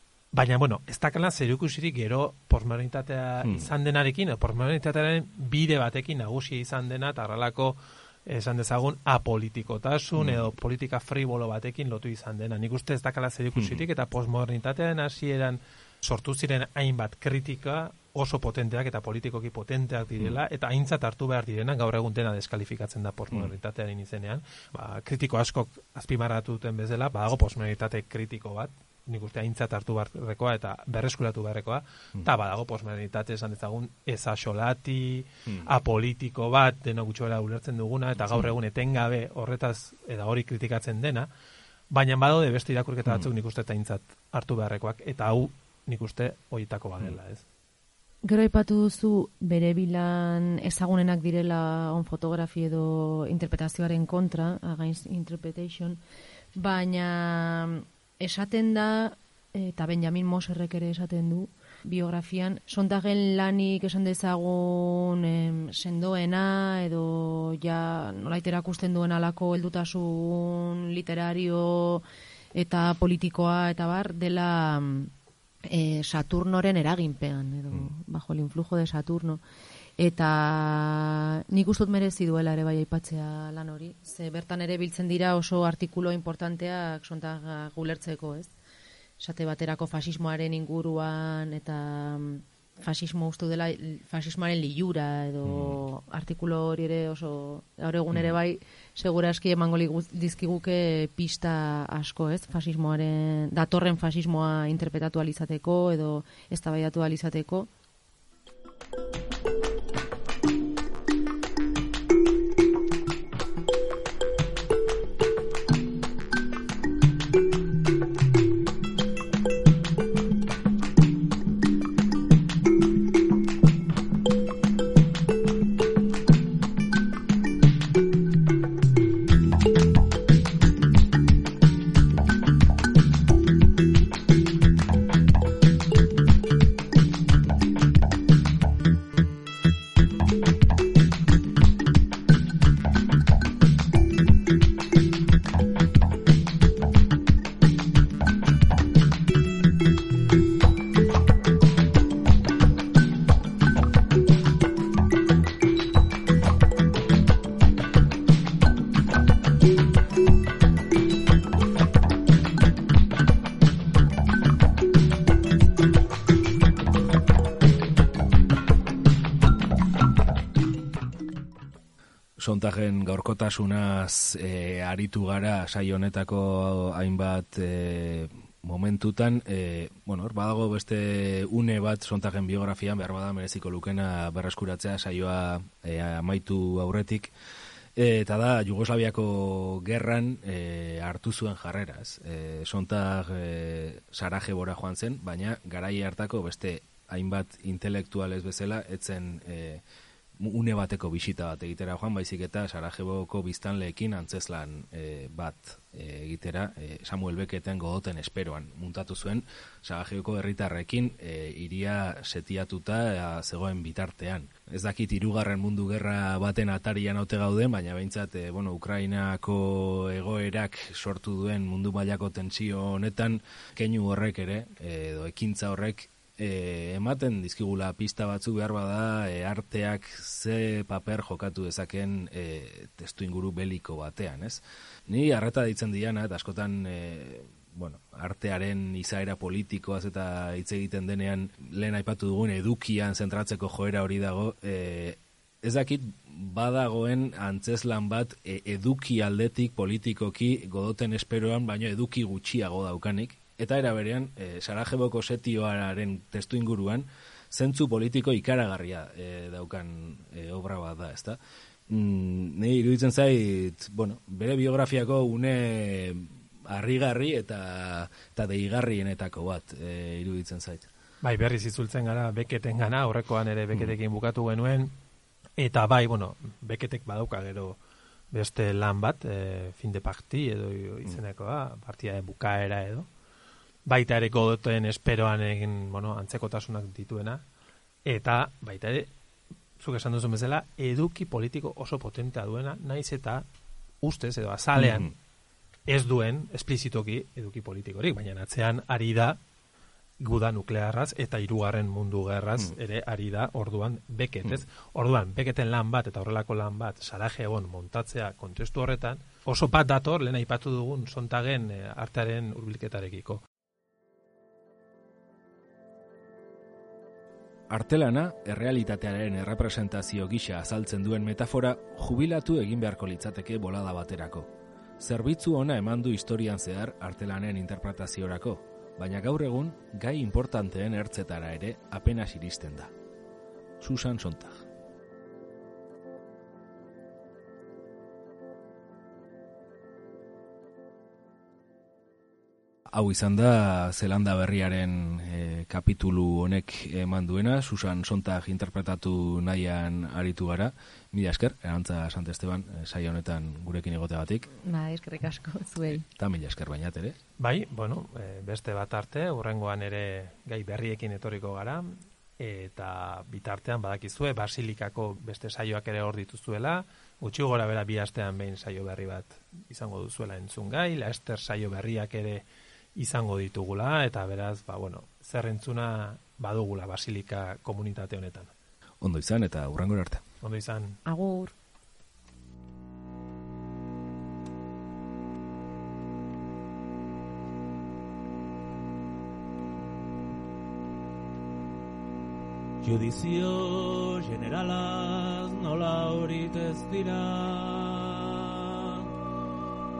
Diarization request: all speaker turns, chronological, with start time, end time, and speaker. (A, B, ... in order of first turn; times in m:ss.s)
0:00.3-0:41.3 A
0:03.4-0:03.7 B
0:10.2-0:10.4 B
0:13.6-0:13.8 B
0:41.9-0:47.4 A
0:48.2-0:56.0 C
0:56.5-1:15.1 C
1:15.6-1:19.4 C
1:20.0-1:28.5 C
1:29.2-1:47.7 C
1:35.4-1:35.8 B
2:52.4-3:07.3 B
3:08.0-3:19.8 B
3:20.4-4:30.9 B
4:31.2-4:34.9 A
4:35.6-4:37.8 A
4:38.3-4:43.0 A
4:43.8-4:47.4 A
4:48.0-4:49.1 A
4:49.8-4:53.4 A
4:54.0-4:55.1 A
4:54.8-4:55.1 B
4:55.9-4:59.4 A
5:00.2-5:13.4 A
5:17.7-5:32.9 B
5:33.8-5:34.6 B
5:42.9-5:54.5 B
5:54.6-5:56.0 C
5:56.0-5:57.2 B
5:57.4-6:12.4 A
6:13.0-6:18.5 A
6:19.0-6:20.2 B
6:20.4-6:21.0 A
6:21.0-6:21.5 C
6:32.8-6:39.1 D